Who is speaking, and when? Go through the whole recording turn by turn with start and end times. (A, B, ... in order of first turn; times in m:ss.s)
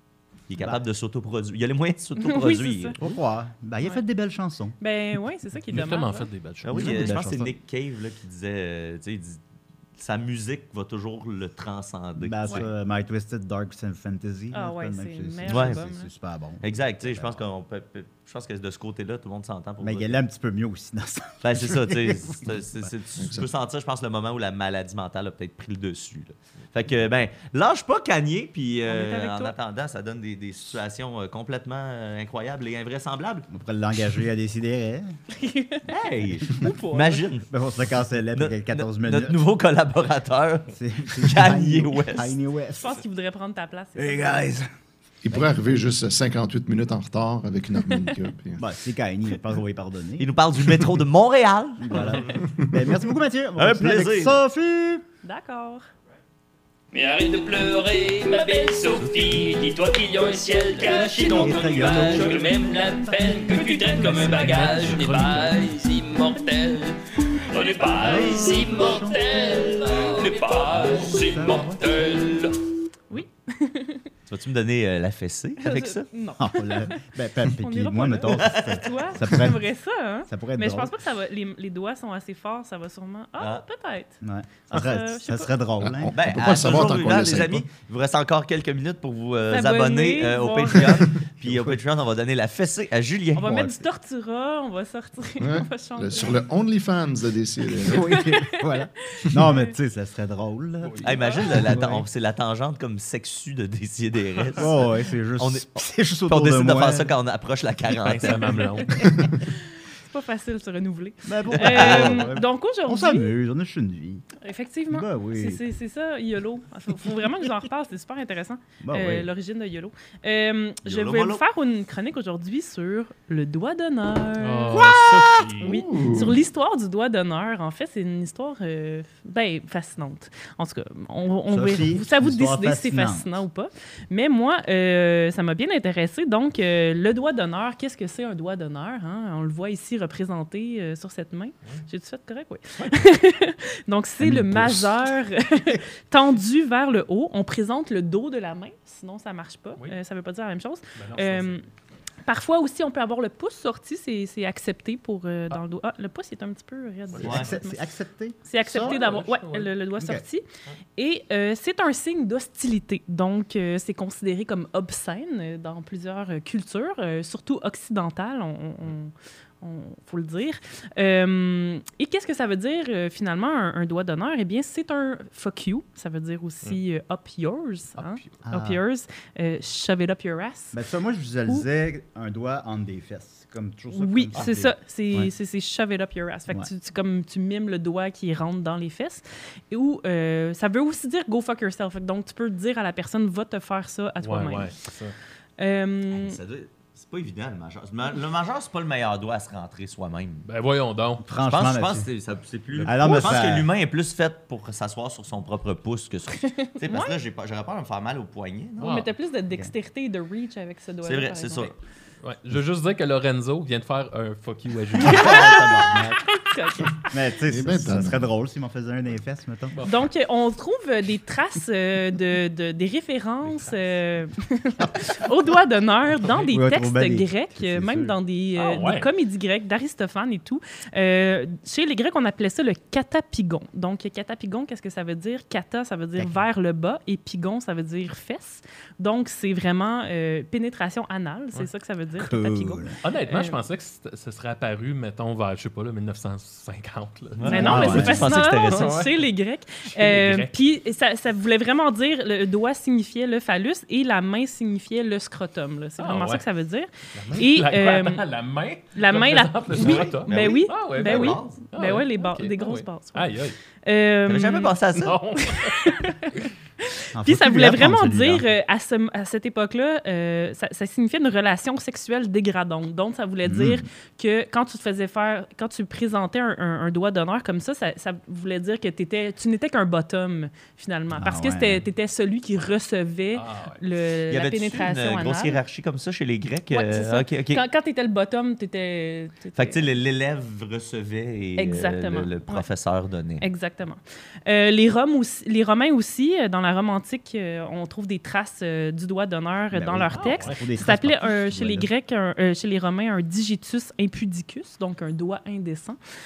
0:00.5-0:03.0 A
0:02.2-0:03.0 B
0:03.0-0:04.8 C
0:04.8-0:06.3 B
0:05.7-0:07.1 D
0:06.6-0:09.4 A
0:06.7-0:07.5 C
0:10.0-0:12.7 A
0:12.2-0:17.4 C
0:14.5-0:16.1 B
0:15.5-0:15.8 A
0:16.6-0:20.2 A
0:19.8-0:22.4 C
0:21.4-0:33.5 A
0:23.2-0:23.5 E
0:28.9-0:29.6 B
0:33.5-0:35.1 C
0:35.3-0:37.3 B
0:35.9-0:37.5 A
0:37.5-0:39.4 C
0:38.4-0:42.4 A
0:40.7-0:43.0 C
0:42.8-0:44.4 B
0:44.0-0:44.7 C
0:45.2-0:48.6 E
0:48.6-0:50.3 C
0:50.2-0:52.5 A
0:51.8-0:55.0 C
0:52.4-0:53.0 E
0:53.6-0:54.4 A
0:55.2-0:55.9 B
0:56.9-1:12.6 F
1:01.1-1:03.2 C
1:03.5-1:05.0 B
1:04.2-1:05.7 D
1:08.0-1:09.2 C
1:10.7-1:11.8 C
1:13.1-1:14.1 B
1:14.3-1:16.1 A
1:15.6-1:25.5 B
1:16.4-1:19.6 C
1:18.5-1:19.0 A
1:20.3-1:20.9 C
1:23.4-1:23.6 A
1:24.2-1:26.1 C
1:25.8-1:27.7 E
1:26.1-1:33.8 A
1:29.5-1:31.2 B
1:33.4-1:36.4 B
1:35.4-1:38.2 E
1:37.8-1:39.7 B
1:37.9-1:41.1 C
1:40.8-1:41.2 D
1:41.0-1:48.6 A
1:41.2-1:41.6 B
1:41.6-1:42.0 C
1:44.6-1:47.1 C
1:48.0-1:49.0 D
1:48.5-1:53.3 B
1:51.2-1:54.2 C
1:51.5-1:52.3 A
1:54.4-2:05.0 B
1:54.9-1:55.6 C
1:58.8-1:59.3 C
2:00.8-2:01.4 A
2:04.4-2:05.8 D
2:05.6-2:31.7 B
2:05.6-2:06.4 E
2:11.5-2:13.3 C
2:24.3-2:24.8 E
2:31.0-2:31.7 D
2:32.3-2:37.8 B
2:37.2-2:39.0 C
2:37.2-2:37.5 A
2:38.4-2:40.4 B
2:38.8-2:39.7 D
2:40.0-2:40.2 C
2:41.0-3:00.8 B
2:58.0-2:58.3 D
2:58.4-2:58.8 C
3:00.7-3:05.3 C
3:03.9-3:14.8 B
3:14.2-3:15.2 D
3:15.6-3:16.4 B
3:16.1-3:20.5 A
3:20.5-3:21.2 D
3:21.2-3:22.1 C
3:21.4-3:29.0 A
3:22.8-3:23.2 D
3:22.8-3:23.7 C
3:26.5-3:27.2 B
3:28.8-3:29.1 D
3:28.8-3:31.7 B
3:31.0-3:31.7 A
3:32.2-3:35.6 D
3:35.0-3:36.2 C
3:35.0-3:37.1 B
3:37.0-3:39.8 C
3:37.5-3:38.3 E
3:39.8-3:40.0 D
3:39.8-4:03.6 B
3:43.4-3:44.0 D
3:46.5-3:48.2 C
3:48.6-3:49.1 D
3:56.2-3:56.4 C
4:02.2-4:03.0 C
4:03.0-4:09.3 D
4:07.4-4:09.0 A
4:07.4-4:18.2 B
4:07.6-4:08.2 C
4:09.9-4:10.5 D
4:16.0-4:16.4 D
4:17.2-4:23.6 D
4:19.0-4:24.8 B
4:19.7-4:21.6 A
4:24.3-4:25.2 A
4:25.0-4:26.0 D
4:25.4-4:45.6 B
4:27.2-4:28.4 C
4:33.4-4:33.8 C
4:41.1-4:41.8 C
4:43.3-4:43.8 D
4:44.3-4:47.6 A
4:46.7-4:49.8 B
4:49.6-4:53.5 A
4:51.6-4:52.7 B
4:53.4-5:06.0 B
4:59.7-5:01.9 C
5:00.1-5:00.6 D